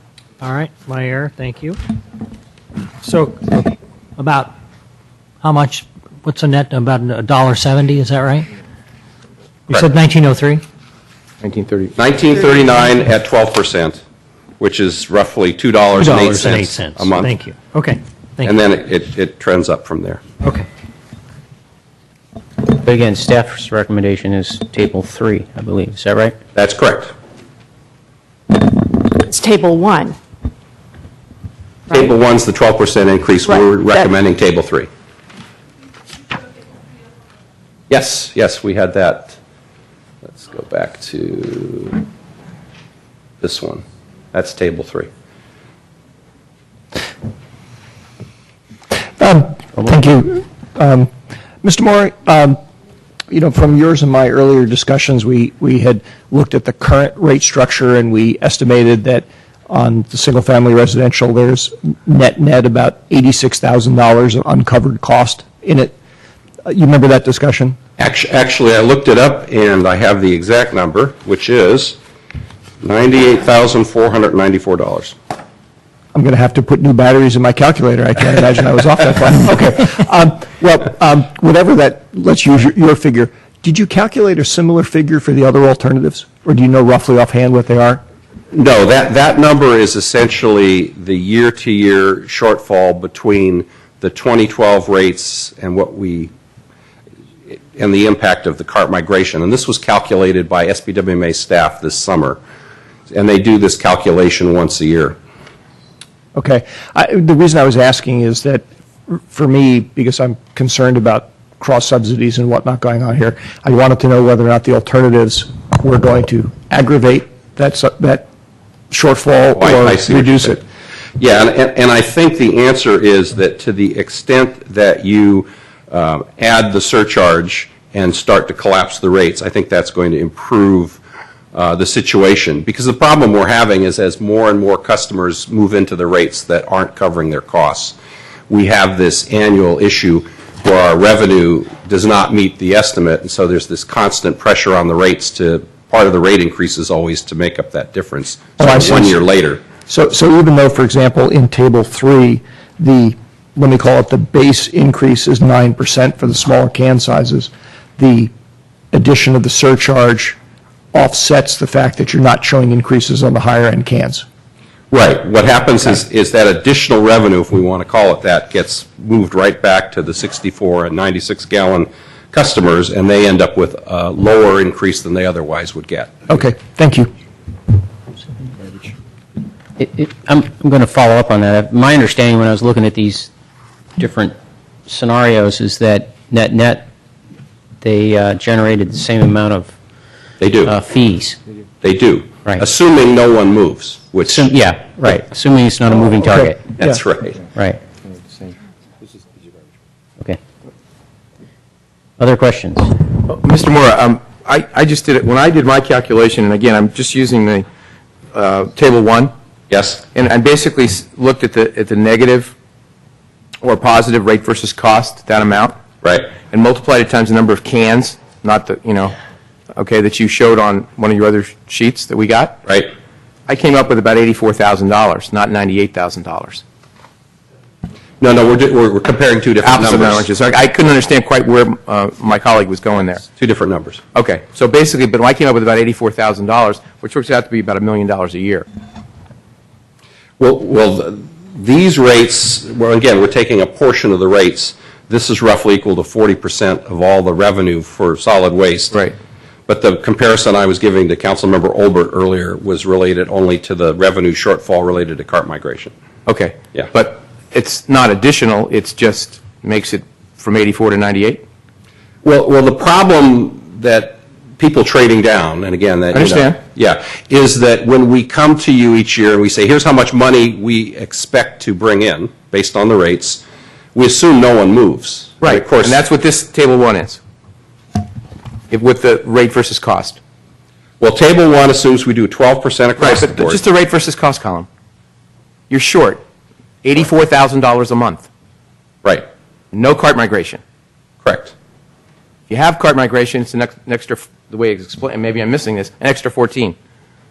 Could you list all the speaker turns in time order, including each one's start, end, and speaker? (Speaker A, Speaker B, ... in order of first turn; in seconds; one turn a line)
Speaker A: 0.4-1.8
Speaker A: 3.0-4.5
Speaker A: 5.4-8.5
Speaker A: 9.7-10.6
Speaker B: 11.4-11.9
Speaker C: 12.0-14.0
Speaker C: 14.6-17.4
Speaker A: 16.0-18.5
Speaker C: 18.4-20.2
Speaker D: 22.6-26.4
Speaker C: 26.6-27.1
Speaker E: 28.5-30.2
Speaker C: 31.9-34.9
Speaker E: 33.5-34.1
Speaker C: 37.9-39.4
Speaker C: 40.3-42.0
Speaker C: 43.4-45.1
Speaker F: 49.2-51.1
Speaker F: 51.6-52.6
Speaker F: 53.3-66.0
Speaker F: 66.7-67.8
Speaker C: 68.0-72.0
Speaker C: 72.8-75.2
Speaker F: 76.1-88.0
Speaker C: 88.5-96.3
Speaker C: 97.8-102.4
Speaker C: 103.1-105.2
Speaker F: 106.3-118.3
Speaker F: 118.9-120.6
Speaker C: 119.6-120.6
Speaker C: 121.2-131.0
Speaker C: 131.5-137.9
Speaker C: 138.5-149.6
Speaker F: 148.6-149.2
Speaker F: 149.9-158.3
Speaker F: 158.9-160.4
Speaker F: 160.9-164.2
Speaker C: 164.9-176.3
Speaker F: 176.3-177.1
Speaker D: 179.8-183.3
Speaker D: 184.0-186.9
Speaker D: 187.8-189.8
Speaker C: 190.4-190.8
Speaker D: 190.7-191.4
Speaker C: 191.8-194.5
Speaker D: 194.2-196.8
Speaker C: 196.8-197.4
Speaker D: 197.5-197.8
Speaker D: 202.2-203.0
Speaker B: 203.3-207.7
Speaker B: 208.3-209.3
Speaker C: 209.7-210.0
Speaker B: 210.1-212.5
Speaker B: 213.6-215.8
Speaker C: 216.0-216.3
Speaker B: 216.3-219.1
Speaker B: 219.7-222.6
Speaker B: 223.5-226.6
Speaker C: 228.2-230.3
Speaker B: 229.6-233.3
Speaker C: 233.4-234.0
Speaker B: 234.1-238.7
Speaker C: 240.4-248.9
Speaker C: 249.7-255.9
Speaker B: 256.3-261.4
Speaker C: 262.2-273.4
Speaker B: 266.1-266.6
Speaker C: 273.9-276.0
Speaker B: 275.4-277.2
Speaker B: 278.7-280.2
Speaker C: 281.0-283.6
Speaker B: 283.0-284.7
Speaker B: 285.7-286.2
Speaker B: 286.8-288.3
Speaker B: 289.7-290.6
Speaker C: 291.2-291.5
Speaker B: 292.5-296.8